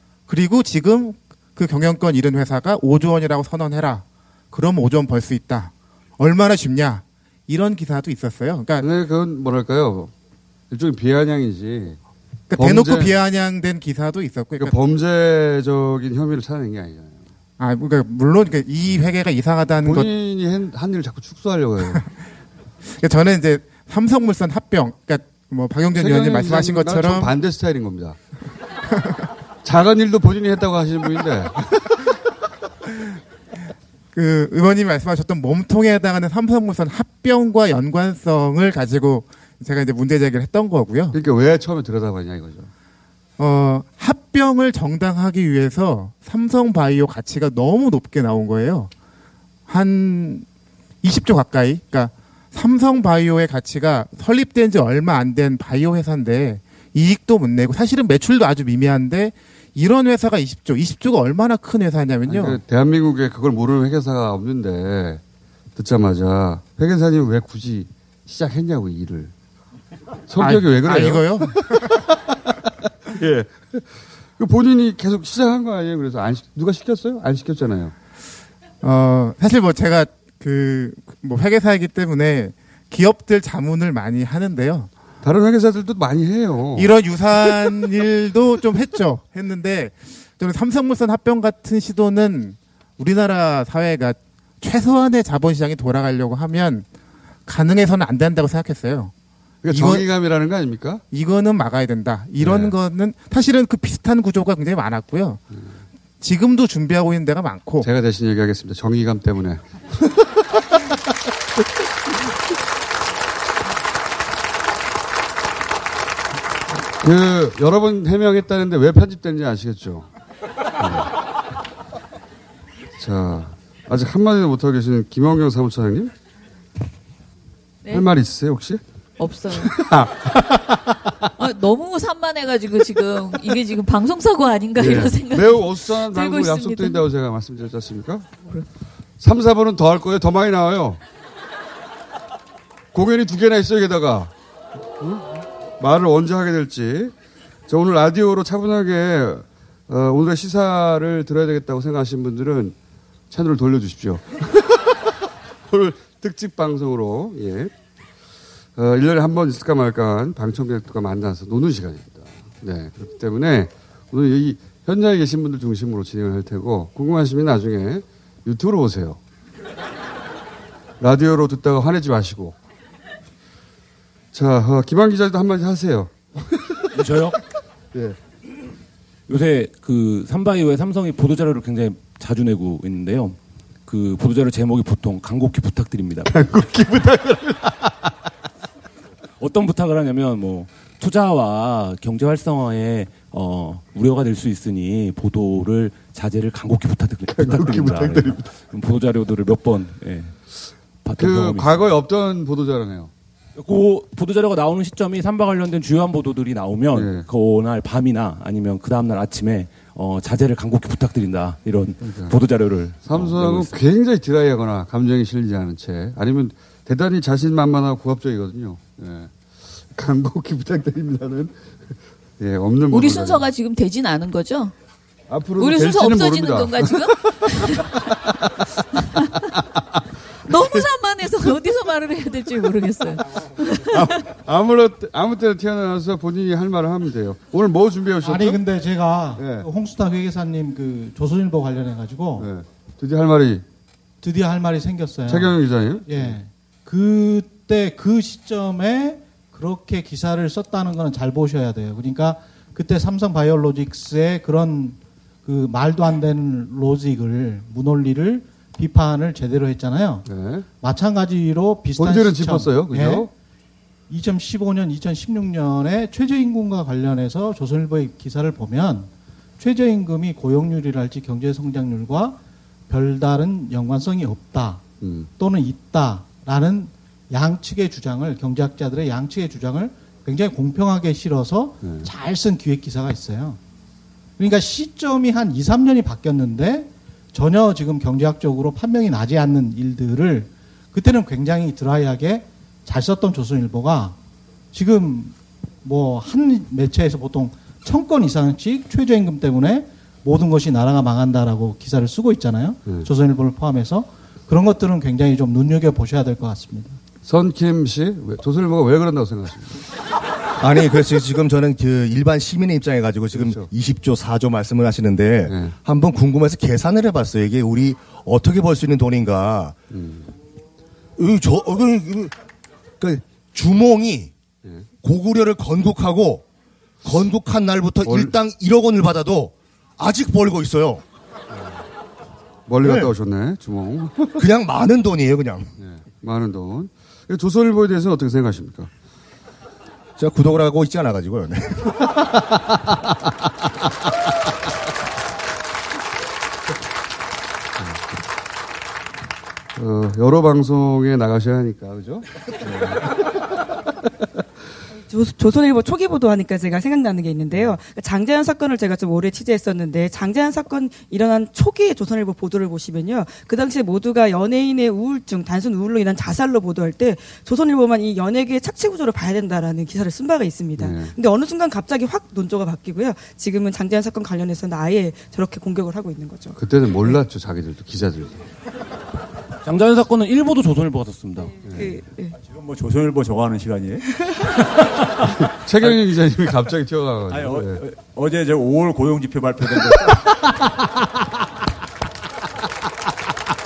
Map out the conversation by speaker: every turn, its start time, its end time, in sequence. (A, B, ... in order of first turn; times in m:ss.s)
0:00.3-0:08.9 A
0:08.8-0:10.1 B
0:10.7-0:12.0 B
0:12.5-0:14.8 A
0:12.5-0:13.2 B
0:14.6-0:17.3 B
0:17.6-0:20.1 A
0:19.8-0:22.0 B
0:23.0-0:27.3 A
0:26.0-0:28.2 B
0:29.6-0:31.9 B
0:34.1-0:41.2 A
0:41.1-0:42.7 B
0:43.4-0:48.9 A
0:49.7-0:50.5 A
0:51.0-1:02.6 A
1:02.3-1:05.2 B
1:05.8-1:09.3 B
1:10.3-1:11.9 B
1:10.4-1:11.8 A
1:13.1-1:17.9 B
1:18.8-1:24.9 A
1:25.2-1:26.9 B
1:26.8-1:36.9 A
1:37.5-1:39.1 A
1:39.6-1:41.0 B
1:39.7-1:40.1 A
1:41.1-1:45.4 A
1:42.4-1:42.8 B
1:46.2-1:47.9 A
1:47.8-1:50.2 B
1:57.0-2:00.1 B
2:00.8-2:01.1 B
2:03.0-2:06.1 B
2:07.9-2:08.8 B
2:09.2-2:09.7 C
2:09.5-2:10.8 B
2:11.4-2:17.0 C
2:14.8-2:18.4 B
2:19.2-2:21.0 B
2:22.9-2:24.3 B
2:25.0-2:27.1 B
2:27.7-2:32.8 B
2:33.3-2:34.8 B
2:35.7-2:37.7 B
2:38.8-2:49.2 B
2:51.0-2:52.6 B
2:54.3-2:56.4 B
2:57.0-2:57.4 D
2:59.3-3:06.3 D
3:06.3-3:07.9 B
3:09.4-3:20.3 D
3:17.4-3:18.5 B
3:21.0-3:21.9 D
3:21.2-3:23.1 B
3:23.6-3:33.7 D
3:26.9-3:27.3 B
3:32.0-3:32.4 B
3:33.0-3:43.5 B
3:42.9-3:44.7 C
3:45.3-3:48.7 B
3:45.6-3:48.0 C
3:49.0-3:49.5 C
3:50.5-3:50.8 B
3:50.5-3:54.2 C
3:53.9-3:58.6 B
3:58.2-4:02.5 E
3:59.4-3:59.7 B
4:02.4-4:03.6 B
4:04.2-4:20.3 E
4:05.3-4:06.4 B
4:20.3-4:20.7 B
4:20.8-4:23.3 E
4:22.0-4:23.3 B
4:24.1-4:32.4 E
4:32.9-4:34.8 E
4:35.0-4:35.3 B
4:35.4-4:43.6 E
4:41.8-4:42.1 B
4:44.4-4:54.2 E
4:54.7-5:07.0 E
5:07.2-5:09.8 B
5:10.6-5:19.8 F
5:13.3-5:13.7 B
5:15.5-5:15.8 B
5:19.9-5:20.3 B
5:21.2-5:22.3 F
5:23.0-5:24.3 F
5:25.0-5:26.4 F
5:27.0-5:31.0 F
5:28.0-5:28.4 B
5:32.7-5:34.4 B
5:32.8-5:33.1 F
5:34.4-5:35.7 F
5:35.8-5:38.9 B
5:40.2-5:41.9 F
5:49.8-5:53.2 B
5:55.1-6:17.2 G
6:10.8-6:11.2 B
6:16.6-6:18.4 B
6:19.6-6:21.5 D
6:21.6-6:22.4 G
6:21.6-6:21.9 B
6:22.4-6:24.2 H
6:25.5-6:27.8 B
6:27.3-6:30.2 H